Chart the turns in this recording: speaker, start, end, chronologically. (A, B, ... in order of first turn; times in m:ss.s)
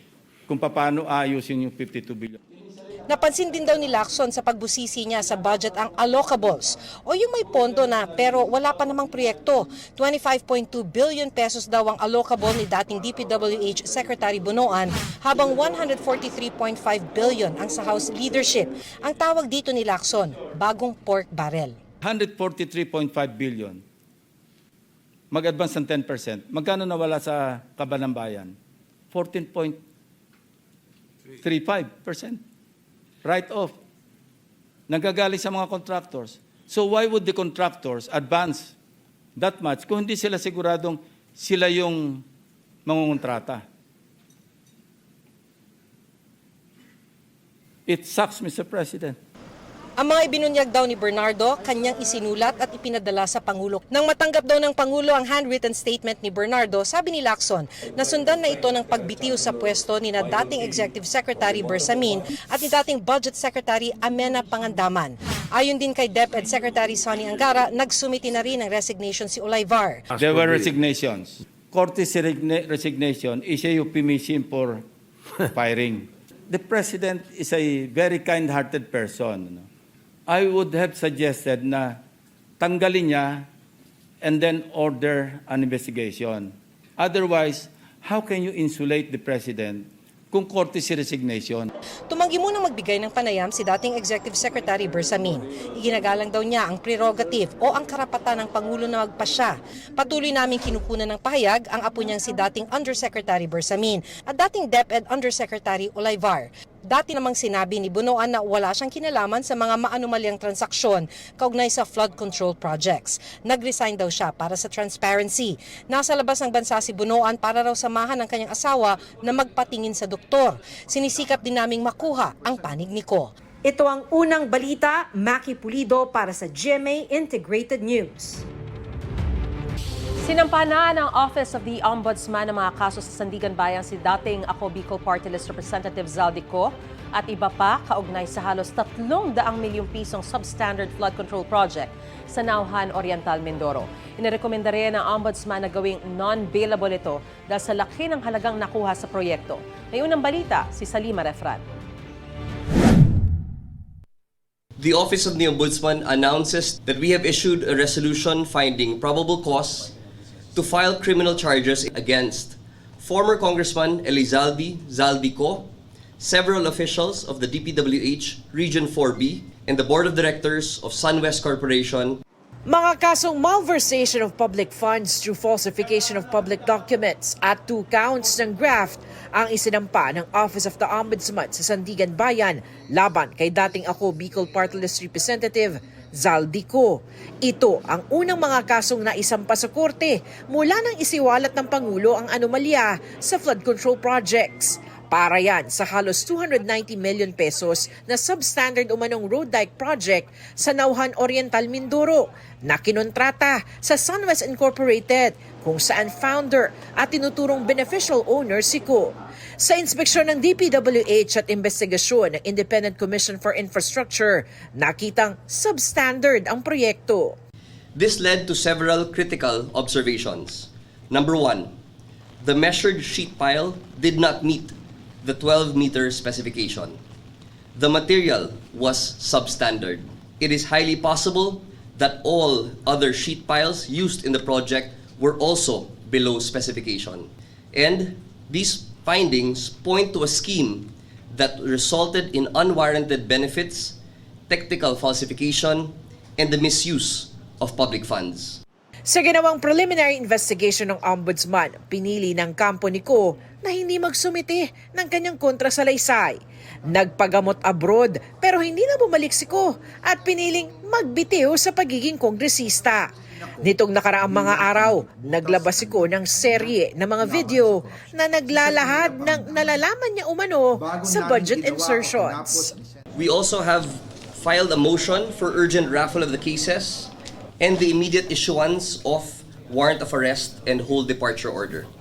0:00.5-0:02.4 A
0:03.1-0:21.8 B
0:22.0-0:23.8 A
0:25.3-0:28.5 A
0:29.1-0:29.8 A
0:31.4-0:32.4 A
0:33.2-0:33.7 A
0:34.9-0:38.8 A
0:39.4-0:42.2 A
0:42.8-0:43.6 A
0:47.9-0:49.2 A
0:50.0-1:10.0 B
1:10.1-1:14.8 A
1:15.5-1:19.7 A
1:20.3-1:22.0 A
1:22.6-1:23.5 A
1:24.2-1:31.7 A
1:32.1-2:08.4 B
2:10.2-2:31.6 C
2:34.8-2:39.9 D
2:40.5-2:52.2 D
2:52.6-3:37.4 E
3:37.9-3:41.7 D
3:42.4-3:47.0 D
3:47.7-4:04.0 D
4:04.5-4:08.6 D
4:09.0-4:23.1 E
4:23.6-4:32.8 E
4:33.1-4:41.9 D